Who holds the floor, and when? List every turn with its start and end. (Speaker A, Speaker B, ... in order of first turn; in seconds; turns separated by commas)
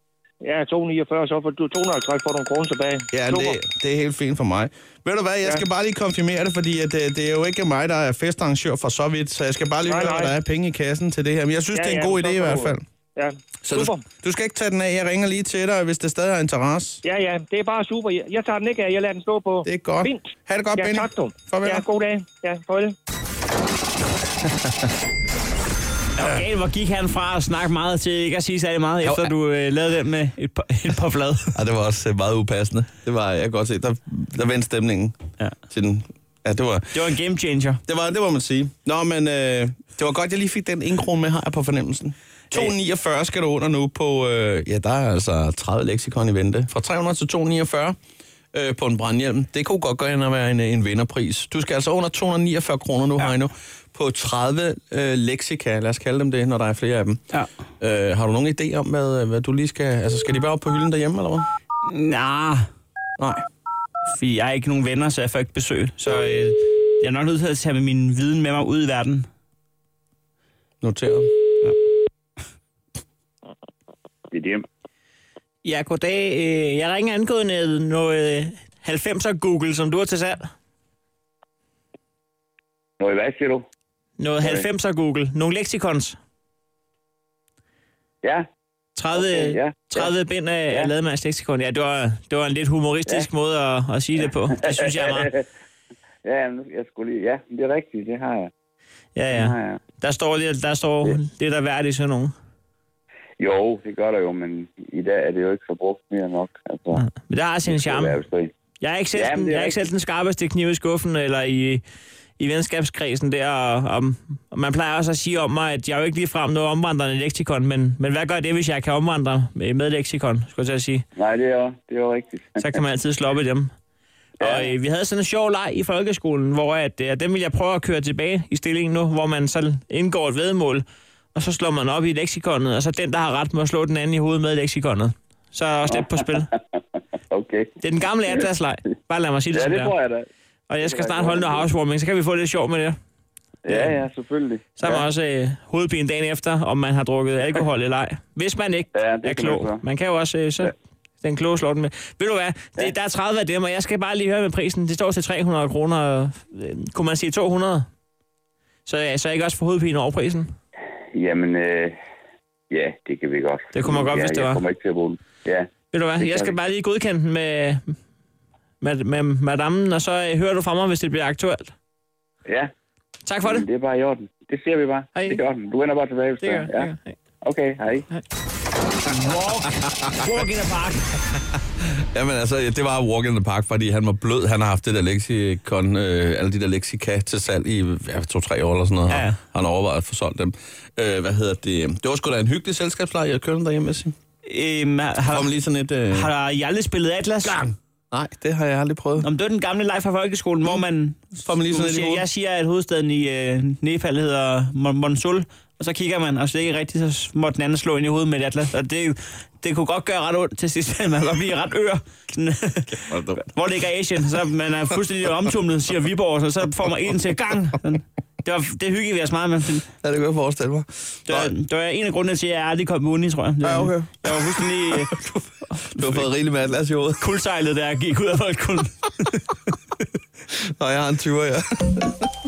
Speaker A: 0.4-3.6, Speaker B: 3.1-12.8, Speaker A: 9.9-10.3, Speaker A: 11.7-14.0, Speaker B: 13.6-17.0, Speaker A: 17.0-22.9, Speaker B: 19.6-21.8, Speaker B: 24.4-24.9, Speaker C: 26.2-31.5, Speaker B: 29.0-29.3, Speaker B: 31.5-35.2, Speaker B: 35.7-37.0, Speaker C: 36.9-37.8, Speaker B: 37.9-48.0, Speaker B: 48.5-57.2, Speaker B: 57.8-61.5, Speaker C: 61.9-62.7, Speaker B: 63.2-63.4, Speaker C: 64.1-69.3, Speaker B: 70.8-71.3, Speaker D: 74.3-74.6, Speaker C: 75.6-80.5, Speaker D: 83.0-83.6, Speaker C: 84.2-86.2, Speaker D: 84.4-84.7, Speaker C: 89.0-95.3, Speaker D: 89.1-90.1, Speaker D: 95.0-95.4, Speaker D: 96.2-98.5, Speaker C: 99.1-102.3, Speaker D: 99.3-99.8, Speaker D: 103.4-107.0, Speaker C: 106.9-108.2, Speaker D: 107.7-108.5, Speaker C: 108.8-111.8, Speaker D: 109.1-109.9, Speaker C: 112.4-121.0, Speaker D: 121.2-122.8, Speaker C: 122.6-123.7, Speaker D: 124.4-124.7, Speaker C: 124.4-136.5, Speaker D: 135.9-136.6, Speaker D: 137.3-137.7, Speaker C: 137.8-139.9, Speaker D: 139.5-140.3, Speaker C: 140.7-143.0, Speaker D: 140.8-141.7, Speaker D: 143.6-145.1, Speaker C: 143.7-144.0, Speaker C: 144.8-157.9, Speaker D: 148.9-149.8, Speaker C: 158.8-160.5, Speaker D: 161.1-161.9, Speaker D: 162.7-166.5, Speaker C: 163.7-164.6, Speaker C: 165.9-168.0, Speaker C: 168.8-171.7, Speaker C: 173.2-173.7, Speaker D: 173.4-178.1, Speaker C: 176.4-177.1, Speaker C: 179.1-181.1, Speaker B: 181.8-194.1, Speaker C: 189.1-189.4, Speaker C: 194.4-195.5, Speaker B: 195.2-196.3, Speaker C: 196.1-197.7, Speaker B: 197.4-199.3, Speaker C: 199.2-219.9, Speaker B: 201.4-202.3, Speaker B: 212.9-213.4, Speaker B: 220.0-221.5, Speaker C: 221.2-226.3, Speaker B: 223.6-225.2, Speaker B: 225.9-227.2, Speaker C: 227.2-228.9, Speaker B: 230.5-232.3